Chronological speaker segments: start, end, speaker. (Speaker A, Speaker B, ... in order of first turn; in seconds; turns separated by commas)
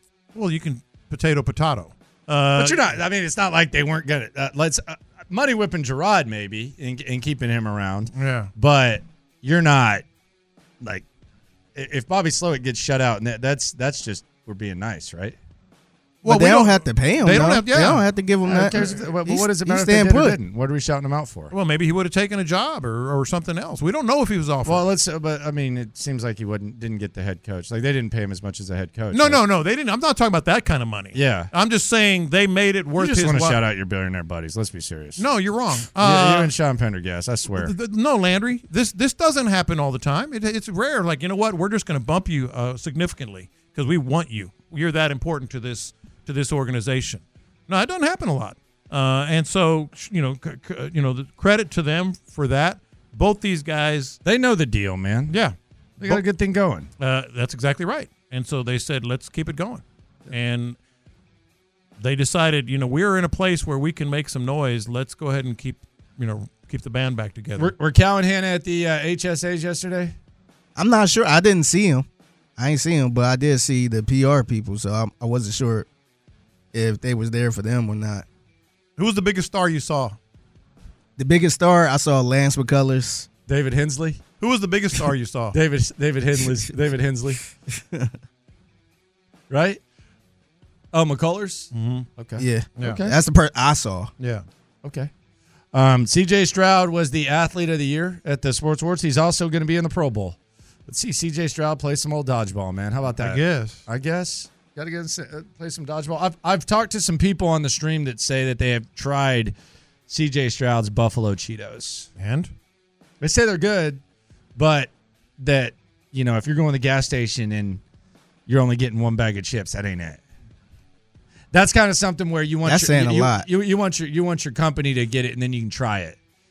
Speaker A: 0.3-3.0, Speaker B: 2.6-10.1, Speaker A: 8.2-8.5, Speaker B: 11.8-15.4, Speaker A: 16.2-18.1, Speaker C: 16.2-20.4, Speaker B: 18.4-21.5, Speaker A: 21.5-24.9, Speaker B: 24.6-29.4, Speaker A: 29.1-33.6, Speaker B: 31.1-31.5, Speaker B: 33.0-35.2, Speaker A: 35.2-36.5, Speaker B: 36.0-37.7, Speaker A: 37.5-54.2, Speaker B: 54.2-55.4, Speaker A: 55.3-56.2, Speaker B: 56.0-56.9, Speaker A: 57.0-60.8, Speaker A: 62.0-67.7, Speaker B: 67.6-70.2, Speaker C: 70.8-72.1, Speaker C: 72.6-75.9, Speaker C: 76.7-78.2, Speaker A: 79.0-80.2, Speaker C: 81.2-83.3, Speaker B: 83.5-84.2, Speaker A: 84.4-85.6, Speaker B: 85.5-87.4, Speaker C: 87.8-88.1, Speaker B: 89.5-89.8, Speaker B: 90.9-93.1, Speaker A: 91.7-92.1, Speaker C: 92.4-94.1, Speaker A: 92.8-93.0, Speaker B: 94.8-95.1, Speaker B: 95.7-109.5, Speaker A: 103.2-103.8, Speaker B: 110.1-112.1, Speaker A: 112.2-112.5, Speaker B: 113.2-114.0, Speaker B: 114.6-117.8, Speaker B: 118.5-120.2, Speaker B: 121.5-126.2, Speaker C: 122.7-123.5